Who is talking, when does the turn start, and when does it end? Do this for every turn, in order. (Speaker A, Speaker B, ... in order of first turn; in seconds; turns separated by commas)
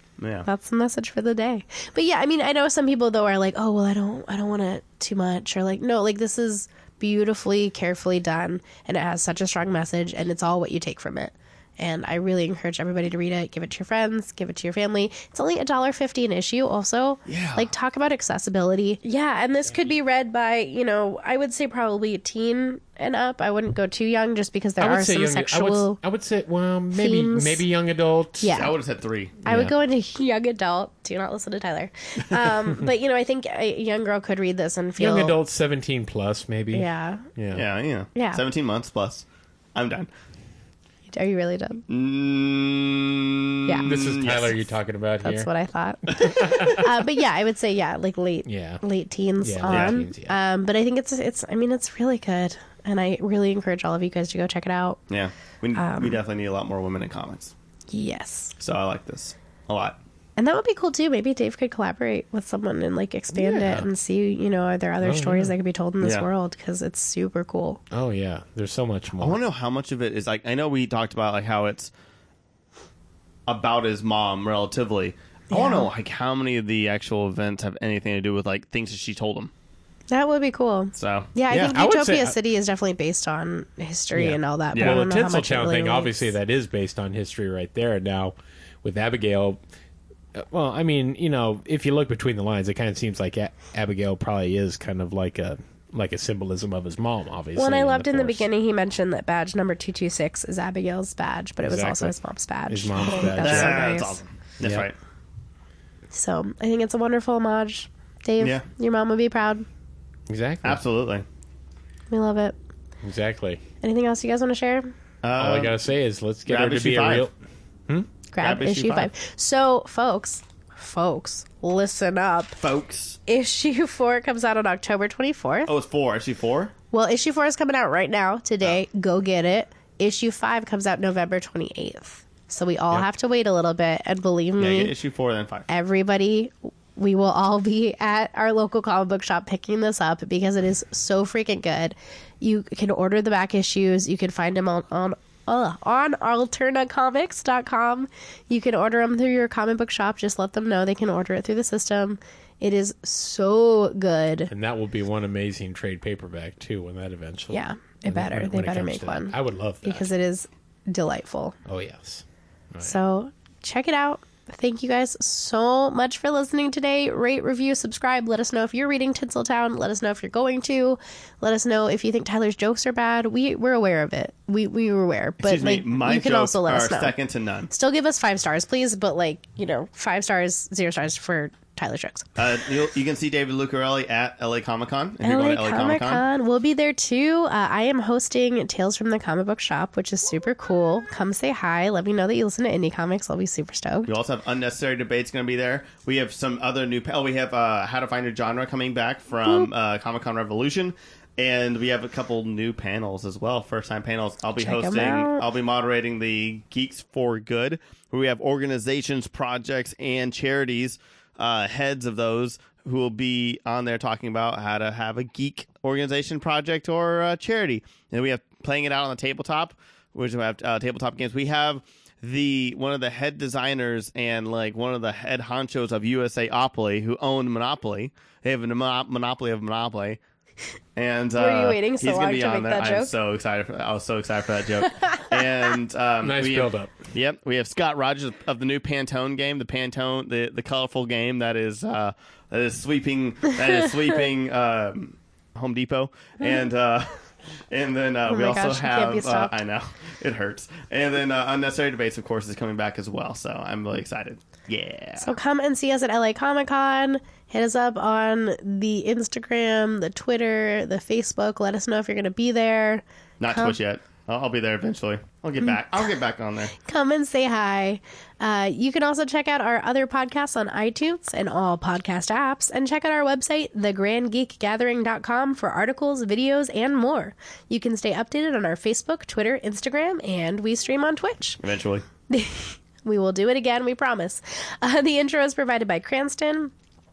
Speaker A: 0.2-0.5, Speaker B: 0.4-26.0, Speaker A: 17.3-17.7, Speaker C: 24.8-28.6, Speaker B: 26.9-27.6, Speaker B: 28.4-28.7, Speaker A: 28.5-29.4, Speaker C: 29.4-29.7, Speaker B: 29.4-35.4, Speaker C: 35.0-37.6, Speaker B: 36.7-37.3, Speaker A: 37.5-40.1, Speaker B: 38.1-38.4, Speaker B: 41.1-41.8, Speaker A: 41.9-44.5, Speaker B: 43.6-43.9, Speaker C: 43.8-45.5, Speaker B: 45.2-55.0, Speaker C: 46.2-47.0, Speaker C: 48.5-48.8, Speaker C: 49.4-50.4, Speaker A: 49.7-50.0, Speaker A: 55.1-57.5, Speaker B: 55.7-56.2, Speaker B: 57.9-58.5, Speaker A: 58.6-60.0, Speaker B: 60.4-67.8, Speaker C: 63.3-63.9, Speaker C: 65.0-65.5, Speaker A: 66.0-66.2, Speaker C: 67.9-69.4, Speaker A: 69.2-71.9, Speaker A: 73.5-79.5, Speaker B: 75.5-75.9, Speaker B: 80.1-86.3, Speaker A: 80.9-81.7, Speaker C: 81.5-82.3, Speaker C: 84.1-89.6, Speaker A: 84.7-85.0, Speaker C: 90.3-98.5, Speaker B: 97.5-104.2, Speaker C: 101.6-102.2, Speaker C: 102.7-104.0, Speaker A: 103.1-104.9, Speaker C: 104.6-104.9, Speaker B: 106.1-109.7, Speaker A: 108.4-108.6, Speaker C: 110.3-110.8, Speaker A: 110.6-111.2, Speaker B: 112.1-112.5, Speaker C: 113.0-113.6, Speaker B: 113.8-114.9, Speaker A: 115.2-115.8, Speaker C: 115.4-117.3, Speaker A: 116.5-117.3, Speaker B: 118.3-122.6, Speaker A: 118.4-119.1, Speaker A: 122.6-123.2, Speaker B: 123.3-125.7, Speaker A: 125.7-126.7, Speaker B: 126.9-134.9, Speaker A: 134.6-135.7, Speaker B: 135.7-154.5, Speaker C: 154.5-160.1, Speaker B: 157.5-161.6, Speaker C: 161.7-163.0, Speaker B: 162.8-177.1, Speaker A: 175.4-177.7, Speaker B: 177.7-182.3, Speaker A: 182.4-186.2, Speaker B: 185.2-194.1, Speaker A: 194.1-230.2, Speaker B: 204.6-205.4, Speaker A: 230.9-255.3, Speaker B: 231.3-233.1, Speaker B: 234.8-235.3, Speaker C: 236.2-236.9, Speaker B: 248.3-249.5, Speaker B: 255.2-263.8, Speaker A: 263.4-266.7, Speaker B: 266.8-281.6, Speaker A: 281.6-282.0, Speaker B: 282.3-286.7